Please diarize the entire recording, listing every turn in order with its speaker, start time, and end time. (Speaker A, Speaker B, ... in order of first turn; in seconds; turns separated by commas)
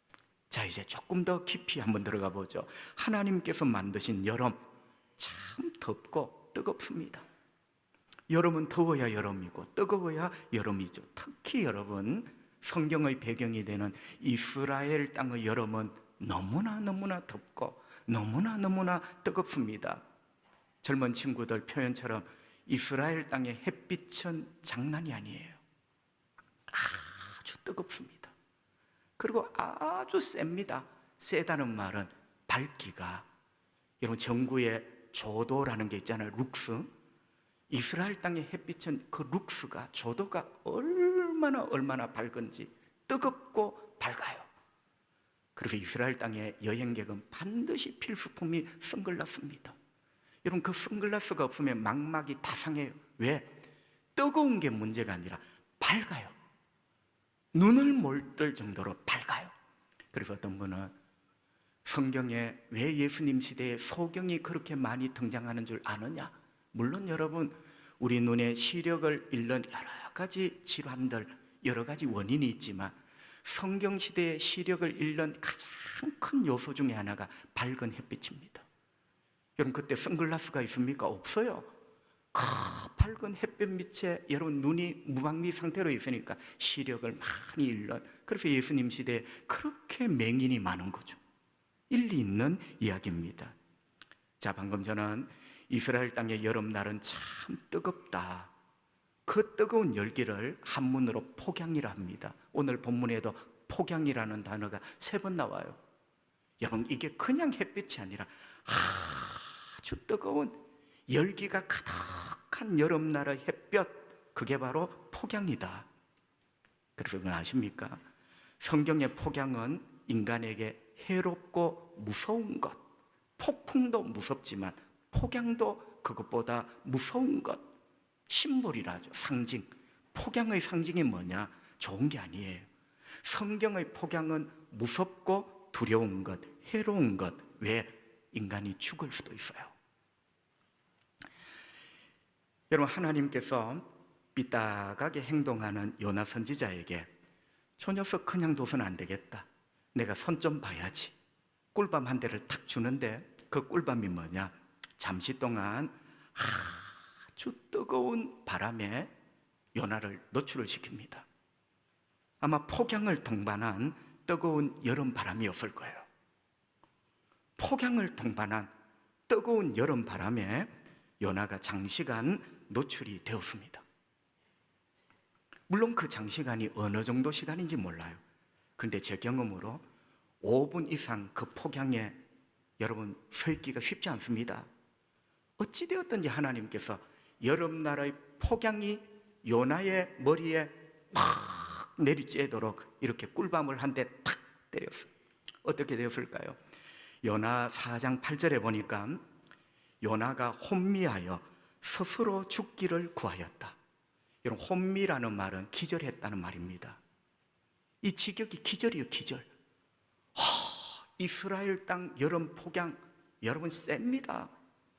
Speaker A: 0.5-4.6, Speaker A: 5.2-7.2, Speaker A: 8.3-20.0, Speaker A: 20.8-25.6, Speaker A: 26.7-28.3, Speaker A: 29.2-33.3, Speaker A: 34.0-36.9, Speaker A: 37.7-44.5, Speaker A: 45.5-49.8, Speaker A: 50.4-53.5, Speaker A: 54.1-56.4, Speaker A: 57.5-59.5, Speaker A: 60.1-60.9, Speaker A: 61.8-78.6, Speaker A: 79.6-81.7, Speaker A: 82.3-91.2, Speaker A: 91.9-93.5, Speaker A: 94.4-98.5, Speaker A: 99.2-105.8, Speaker A: 106.6-115.9, Speaker A: 117.0-118.0, Speaker A: 118.6-122.8, Speaker A: 123.4-127.6, Speaker A: 128.3-132.7, Speaker A: 133.2-139.7, Speaker A: 142.7-147.1, Speaker A: 147.8-151.1, Speaker A: 151.7-159.1, Speaker A: 159.7-161.3, Speaker A: 162.4-166.1, Speaker A: 167.6-168.7, Speaker A: 169.3-173.8, Speaker A: 175.7-178.2, Speaker A: 178.8-179.8, Speaker A: 180.4-182.2, Speaker A: 182.8-184.7, Speaker A: 185.6-195.1, Speaker A: 195.6-196.6, Speaker A: 197.2-199.2, Speaker A: 200.0-203.8, Speaker A: 204.4-207.0, Speaker A: 208.0-209.5, Speaker A: 210.3-214.5